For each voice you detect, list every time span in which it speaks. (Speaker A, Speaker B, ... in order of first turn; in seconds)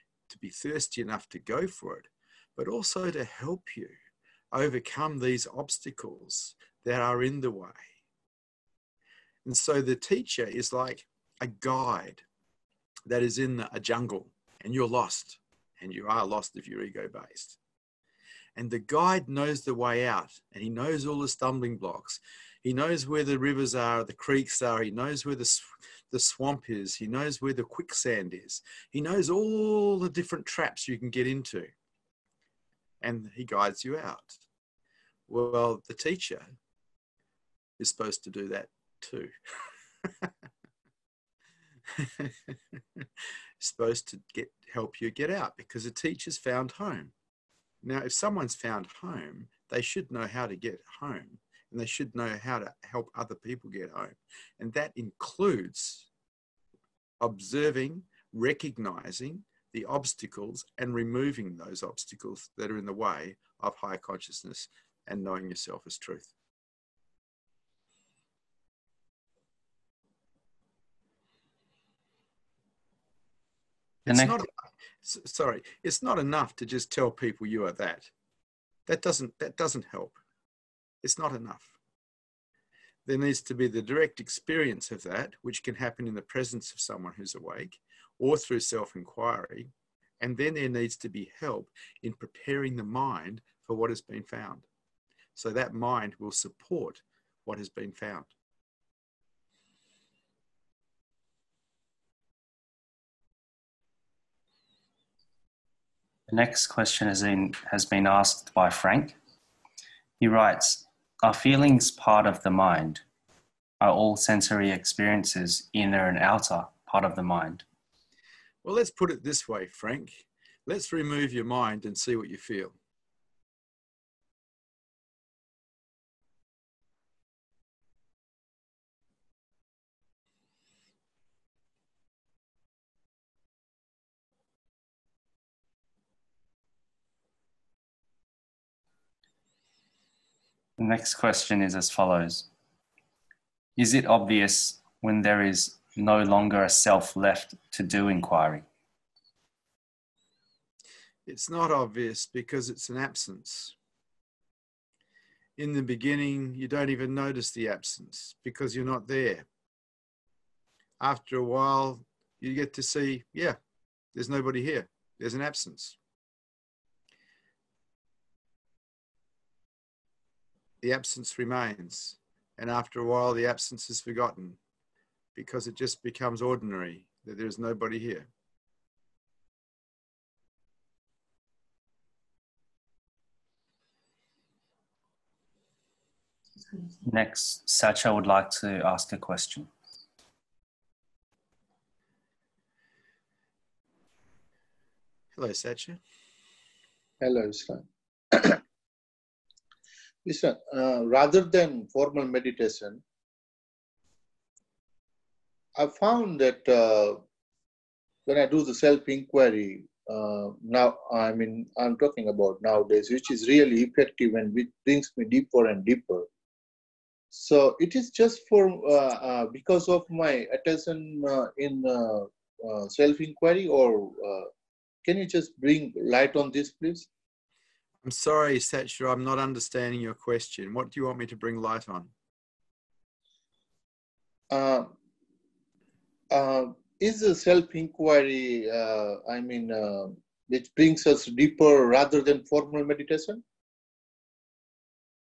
Speaker A: 0.3-4.0, 4.5-7.9, 9.4-12.2, 13.1-17.6, 18.6-31.7, 33.0-34.4, 35.3-36.5, 37.8-39.3, 42.0-43.1, 43.6-47.1, 47.8-56.1, 57.2-66.3, 74.1-74.5, 75.0-78.1, 78.9-80.2, 81.0-81.7, 83.1-94.7, 95.3-98.3, 118.6-122.8, 151.3-153.8, 155.6-159.5, 161.0-163.6, 164.1-166.0, 170.8-174.6, 175.3-178.3, 195.4-196.0, 228.0-232.1
Speaker B: 74.1-74.4, 106.3-109.2, 110.2-113.0, 113.8-117.7, 140.8-142.5, 143.8-148.7, 187.0-189.7
Speaker C: 197.2-198.6, 200.2-203.0, 205.8-207.2, 208.3-216.3, 217.3-224.5, 225.0-227.1, 234.5-235.0, 236.3-243.4